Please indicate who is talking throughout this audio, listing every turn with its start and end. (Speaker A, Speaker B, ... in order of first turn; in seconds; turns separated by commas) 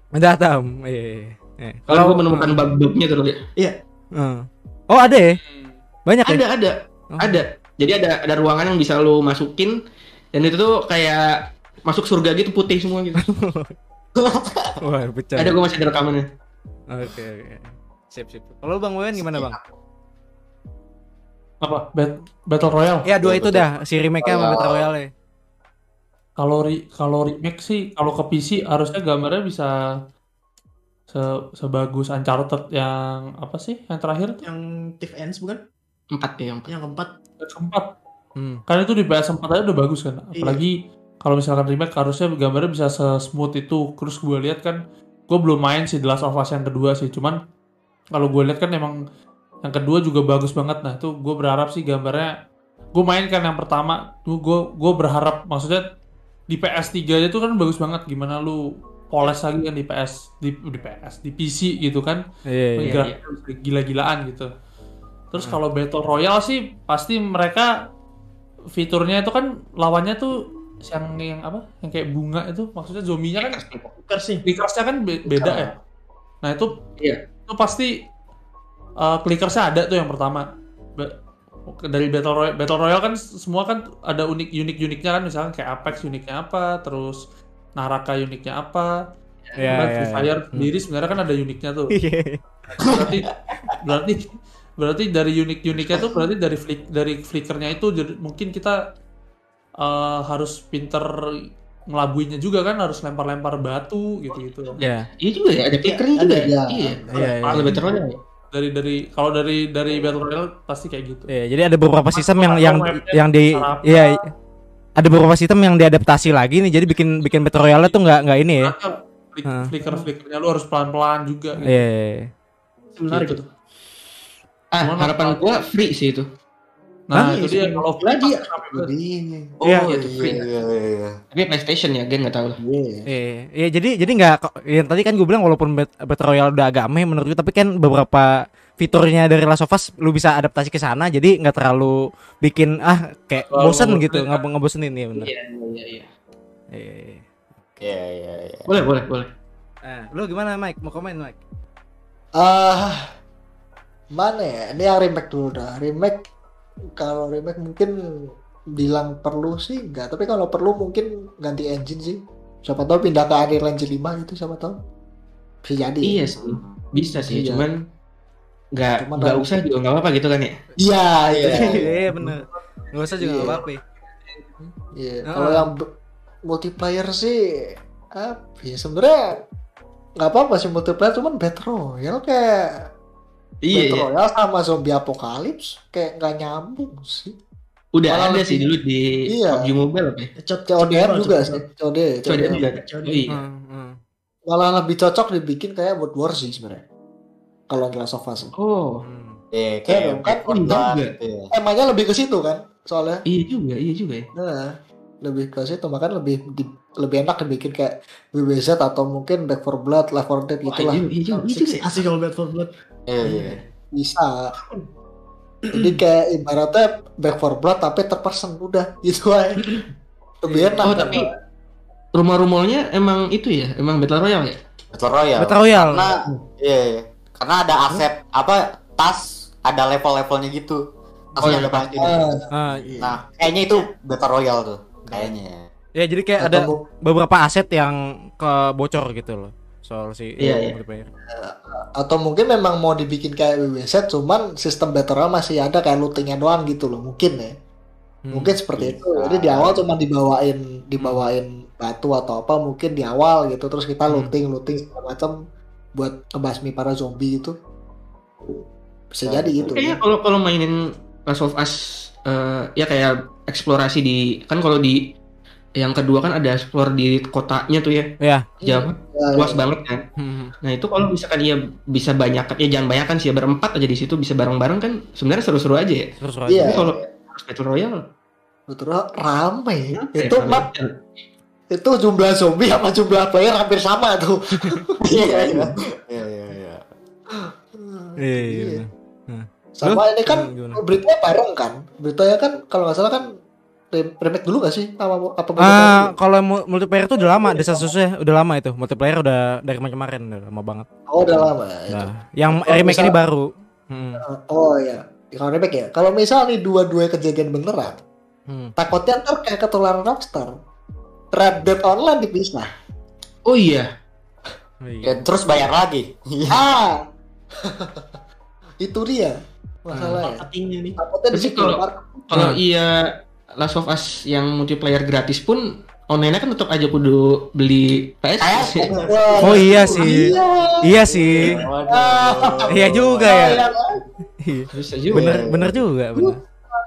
Speaker A: 0.1-2.6, Speaker B: 1.9-3.4, Speaker A: 4.2-5.4, Speaker C: 5.4-5.8, Speaker A: 6.1-6.4, Speaker B: 6.2-9.7, Speaker A: 7.1-7.4, Speaker B: 10.3-11.3, Speaker B: 11.9-13.2, Speaker A: 13.2-13.7, Speaker D: 14.2-14.7, Speaker A: 14.8-15.6, Speaker B: 15.4-16.3, Speaker A: 16.9-19.6, Speaker D: 19.2-19.5, Speaker C: 21.6-23.1, Speaker A: 23.1-25.1, Speaker D: 23.2-23.6, Speaker D: 24.2-24.8, Speaker C: 26.4-29.7, Speaker C: 31.1-34.4, Speaker E: 34.4-35.6, Speaker B: 36.2-36.7, Speaker E: 36.7-37.1, Speaker C: 37.4-37.9, Speaker A: 38.4-38.6, Speaker C: 38.7-40.7, Speaker E: 40.4-40.6, Speaker C: 41.2-44.8, Speaker C: 45.3-47.4, Speaker C: 48.1-49.0, Speaker C: 49.6-52.3, Speaker C: 53.0-55.8, Speaker C: 56.5-58.6, Speaker C: 59.1-62.2, Speaker A: 62.5-63.0, Speaker C: 62.8-64.5, Speaker B: 62.9-63.2, Speaker C: 65.3-67.7, Speaker C: 68.8-70.3, Speaker C: 70.9-73.6, Speaker B: 73.4-73.9, Speaker E: 74.0-74.4, Speaker C: 74.5-75.7, Speaker F: 75.3-75.7, Speaker C: 76.4-76.7, Speaker C: 77.5-77.9, Speaker C: 79.0-80.5, Speaker C: 81.7-87.2, Speaker C: 87.8-88.9, Speaker A: 89.6-90.7, Speaker C: 89.7-91.9, Speaker A: 91.9-92.4, Speaker C: 92.8-93.3, Speaker C: 93.8-98.8, Speaker C: 99.8-101.1, Speaker C: 101.9-104.8, Speaker A: 104.8-105.1, Speaker B: 105.2-108.2, Speaker E: 105.8-106.5, Speaker F: 106.4-107.2, Speaker C: 107.2-107.8, Speaker A: 107.2-107.8, Speaker C: 108.5-111.3, Speaker A: 111.3-114.2, Speaker C: 112.1-114.1, Speaker A: 115.0-118.7, Speaker C: 118.6-121.6, Speaker A: 121.6-122.3, Speaker E: 123.0-123.4, Speaker B: 123.1-123.4, Speaker B: 124.8-126.2, Speaker C: 124.8-125.7, Speaker C: 127.1-128.9, Speaker A: 127.1-127.5, Speaker F: 128.1-129.6, Speaker D: 129.6-131.1, Speaker A: 129.7-129.9, Speaker B: 129.9-130.5, Speaker B: 131.3-132.6, Speaker F: 132.6-133.1, Speaker A: 133.1-145.3, Speaker C: 143.4-144.4, Speaker B: 145.2-146.1, Speaker A: 146.7-147.8, Speaker D: 147.8-148.7, Speaker B: 148.7-149.3, Speaker A: 149.8-151.4, Speaker F: 152.4-153.0, Speaker F: 154.1-156.2, Speaker F: 157.0-157.9, Speaker F: 158.8-164.8, Speaker F: 165.6-166.2, Speaker B: 166.0-167.8, Speaker D: 166.4-166.7, Speaker F: 167.0-167.7, Speaker B: 168.8-170.6, Speaker F: 169.0-169.6, Speaker F: 170.8-172.4, Speaker D: 171.3-171.8, Speaker A: 171.5-173.8, Speaker F: 173.2-173.6, Speaker C: 174.1-174.7, Speaker F: 175.0-175.8, Speaker A: 175.3-175.7, Speaker F: 176.5-177.4, Speaker F: 178.2-179.4, Speaker F: 180.2-182.6, Speaker B: 183.7-184.1, Speaker F: 183.7-187.3, Speaker B: 187.9-190.3, Speaker E: 188.1-188.7, Speaker F: 189.3-189.7, Speaker E: 190.4-191.6, Speaker F: 190.7-192.7, Speaker B: 192.3-193.3, Speaker E: 192.5-193.3, Speaker A: 193.3-194.0, Speaker F: 194.5-196.8, Speaker F: 197.7-198.5, Speaker B: 198.6-199.0, Speaker A: 199.0-199.4, Speaker D: 199.5-201.5, Speaker F: 199.9-200.5, Speaker B: 200.5-201.1, Speaker F: 201.5-203.2, Speaker B: 203.3-204.3, Speaker F: 204.3-204.7, Speaker F: 205.2-211.0, Speaker B: 210.7-212.0, Speaker E: 211.3-212.7, Speaker D: 213.1-213.6, Speaker F: 214.0-214.5, Speaker F: 215.7-219.8, Speaker F: 220.4-221.3, Speaker A: 220.5-220.8, Speaker B: 220.8-221.2, Speaker B: 222.2-224.6, Speaker D: 224.9-230.8, Speaker A: 225.4-226.1, Speaker D: 231.4-232.3, Speaker F: 231.4-233.2, Speaker B: 231.4-231.9, Speaker A: 232.5-232.9, Speaker D: 233.0-235.7, Speaker A: 236.0-241.1, Speaker F: 236.4-236.8, Speaker B: 240.4-240.8, Speaker F: 241.3-247.5, Speaker A: 248.2-248.5, Speaker F: 248.3-255.3, Speaker D: 248.8-249.8, Speaker F: 256.0-257.6, Speaker F: 259.1-260.0, Speaker D: 259.2-259.7, Speaker B: 259.6-265.0, Speaker B: 265.8-268.1, Speaker A: 268.2-268.6, Speaker F: 268.6-269.6, Speaker B: 268.6-270.0, Speaker A: 270.2-270.5, Speaker B: 270.6-276.1, Speaker A: 276.2-276.8, Speaker F: 276.5-276.8, Speaker D: 276.7-277.1, Speaker B: 276.7-278.0, Speaker F: 278.7-280.7, Speaker B: 280.0-280.9, Speaker F: 281.7-285.8, Speaker D: 285.1-286.8, Speaker F: 287.3-288.8, Speaker A: 288.2-290.8, Speaker F: 289.8-293.3, Speaker F: 293.9-296.1, Speaker A: 295.6-300.9, Speaker F: 297.2-297.9, Speaker F: 301.1-303.1, Speaker A: 301.9-304.2, Speaker F: 304.2-308.0, Speaker A: 308.5-308.7, Speaker F: 308.8-310.5, Speaker F: 311.3-312.7, Speaker B: 313.5-313.9, Speaker A: 314.8-315.2, Speaker D: 315.0-316.6, Speaker F: 316.5-317.0, Speaker F: 317.6-318.1, Speaker F: 318.8-320.4, Speaker E: 320.2-320.9, Speaker F: 321.0-322.2, Speaker B: 321.3-322.9, Speaker A: 322.3-322.6, Speaker B: 323.6-329.9, Speaker D: 328.4-330.3, Speaker F: 328.8-333.7, Speaker A: 329.4-330.3, Speaker A: 330.8-331.6, Speaker D: 331.1-333.6, Speaker A: 332.7-333.6, Speaker A: 334.4-336.4, Speaker B: 334.7-335.4, Speaker D: 335.1-335.8